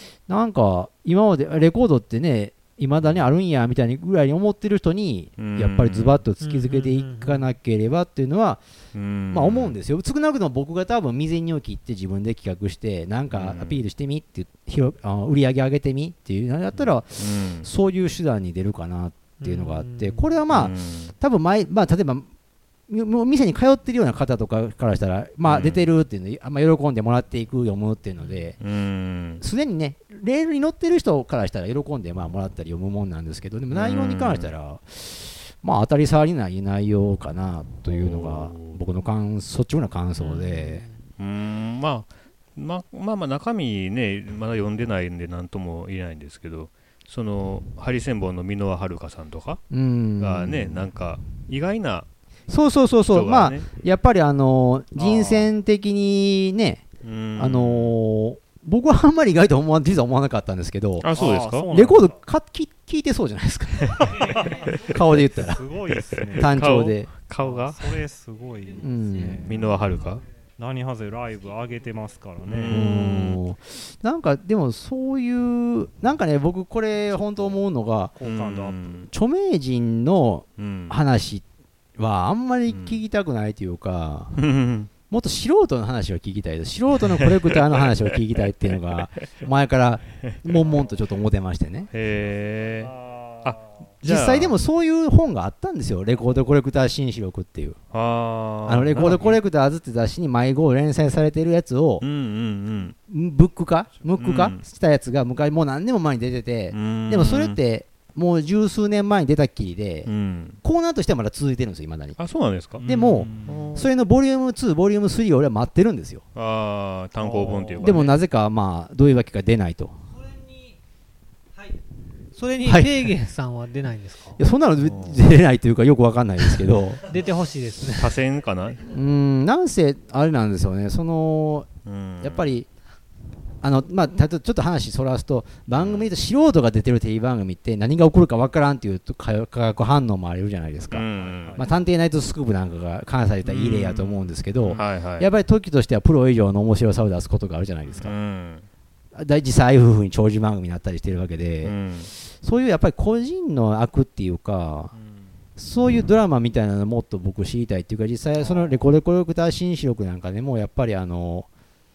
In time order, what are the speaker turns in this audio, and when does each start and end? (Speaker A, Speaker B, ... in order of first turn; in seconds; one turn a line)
Speaker A: 0.3-8.6
Speaker B: 5.4-6.2
Speaker C: 6.4-7.5
Speaker B: 8.9-9.7
Speaker A: 9.3-22.3
Speaker B: 13.3-13.8
Speaker B: 17.1-17.7
Speaker C: 19.4-20.3
Speaker B: 20.5-21.1
Speaker A: 22.9-28.6
Speaker B: 25.4-25.9
Speaker C: 28.2-28.4
Speaker B: 28.6-29.4
Speaker A: 29.4-40.8
Speaker B: 33.7-34.5
Speaker B: 37.9-38.8
Speaker C: 40.2-41.0
Speaker B: 41.2-49.6
Speaker A: 49.7-50.9
Speaker B: 50.2-52.1
Speaker A: 52.5-56.9
Speaker B: 53.1-53.6
Speaker D: 55.0-55.5
Speaker B: 57.0-58.0
Speaker A: 57.4-65.7
Speaker B: 61.0-61.7
Speaker D: 61.1-62.1
Speaker D: 64.1-66.8
Speaker B: 66.2-68.0
Speaker A: 66.3-67.1
Speaker D: 67.4-69.7
Speaker A: 68.7-69.5
Speaker B: 69.4-70.2
Speaker D: 70.6-72.9
Speaker B: 72.4-73.4
Speaker A: 72.7-78.1
Speaker D: 77.1-77.6
Speaker D: 78.2-79.0
Speaker B: 78.2-79.1
Speaker A: 79.1-81.4
Speaker B: 80.6-81.0
Speaker A: 82.0-84.3
Speaker B: 82.7-83.0
Speaker B: 84.3-84.9
Speaker A: 85.1-91.9
Speaker D: 90.5-91.0
Speaker B: 91.9-94.6
Speaker D: 92.2-93.9
Speaker A: 94.0-97.8
Speaker B: 97.9-99.4
Speaker A: 98.7-102.0
Speaker B: 102.0-103.0
Speaker A: 103.1-110.1
Speaker B: 104.2-104.6
Speaker B: 106.7-107.6
Speaker B: 110.0-110.6
Speaker A: 110.6-112.2
Speaker B: 112.2-113.9
Speaker A: 112.8-116.2
Speaker D: 112.8-113.7
Speaker C: 112.9-113.2
Speaker B: 116.3-118.2
Speaker D: 117.2-118.0
Speaker A: 117.8-119.9
Speaker C: 120.2-120.7
Speaker C: 122.3-124.4
Speaker A: 122.6-123.1
Speaker A: 124.4-127.0
Speaker B: 124.8-125.2
Speaker C: 127.0-128.2
Speaker B: 127.9-128.9
Speaker A: 128.8-131.7
Speaker B: 131.8-132.5
Speaker A: 132.2-132.7
Speaker A: 133.6-148.1
Speaker B: 135.8-136.1
Speaker B: 140.9-141.6
Speaker D: 141.0-141.9
Speaker B: 143.4-145.3
Speaker D: 144.6-144.9
Speaker B: 148.0-148.7
Speaker A: 149.1-151.7
Speaker B: 151.6-152.1
Speaker A: 152.2-154.9
Speaker D: 154.9-155.3
Speaker A: 155.6-161.5
Speaker D: 158.4-158.8